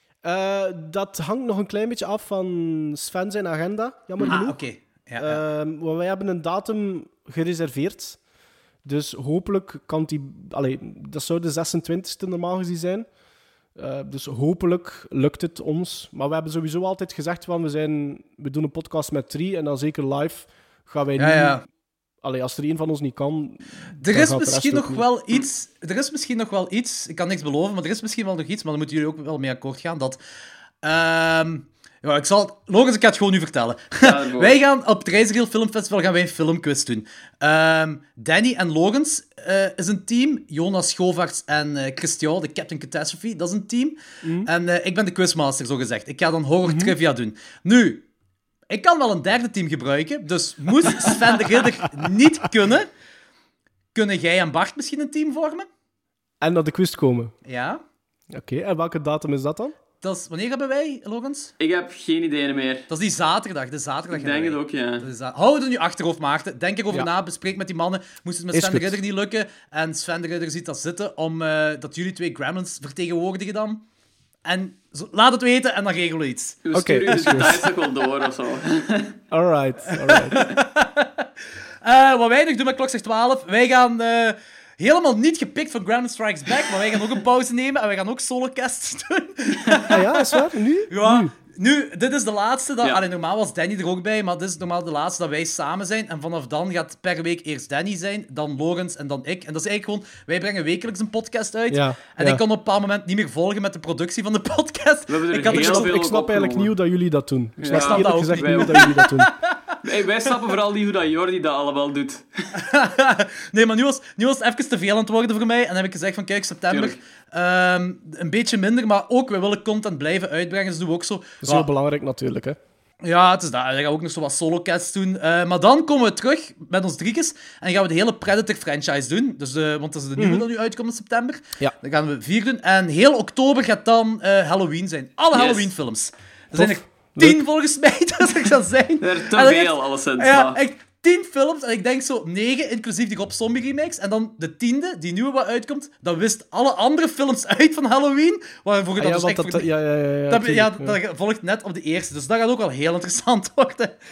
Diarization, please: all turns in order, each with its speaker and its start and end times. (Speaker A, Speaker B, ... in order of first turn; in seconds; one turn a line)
Speaker A: 0.2-4.6
Speaker B: 4.2-5.4
Speaker A: 5.2-8.2
Speaker A: 8.8-13.1
Speaker A: 13.8-21.6
Speaker B: 21.2-21.6
Speaker A: 22.2-25.1
Speaker B: 24.0-30.2
Speaker B: 30.8-48.0
Speaker C: 34.0-34.5
Speaker A: 44.2-44.5
Speaker A: 46.6-46.9
Speaker B: 48.7-52.9
Speaker B: 54.0-55.7
Speaker A: 56.4-57.3
Speaker B: 57.5-57.8
Speaker A: 58.3-59.8
Speaker B: 60.0-61.5
Speaker C: 61.6-62.9
Speaker B: 62.9-73.8
Speaker C: 64.1-65.1
Speaker A: 68.5-69.0
Speaker B: 74.5-77.4
Speaker C: 76.7-79.2
Speaker A: 76.7-77.6
Speaker A: 79.3-80.4
Speaker B: 80.0-81.3
Speaker B: 81.8-106.1
Speaker A: 89.9-91.3
Speaker A: 101.7-102.4
Speaker C: 105.1-106.8
Speaker A: 105.5-109.3
Speaker C: 107.6-109.0
Speaker B: 107.7-109.6
Speaker C: 109.8-112.5
Speaker B: 112.5-121.7
Speaker C: 116.7-117.0
Speaker A: 121.4-122.6
Speaker B: 123.0-149.7
Speaker A: 130.2-130.5
Speaker C: 135.3-135.7
Speaker A: 136.6-137.4
Speaker C: 139.0-140.6
Speaker A: 149.0-151.0
Speaker B: 150.3-153.9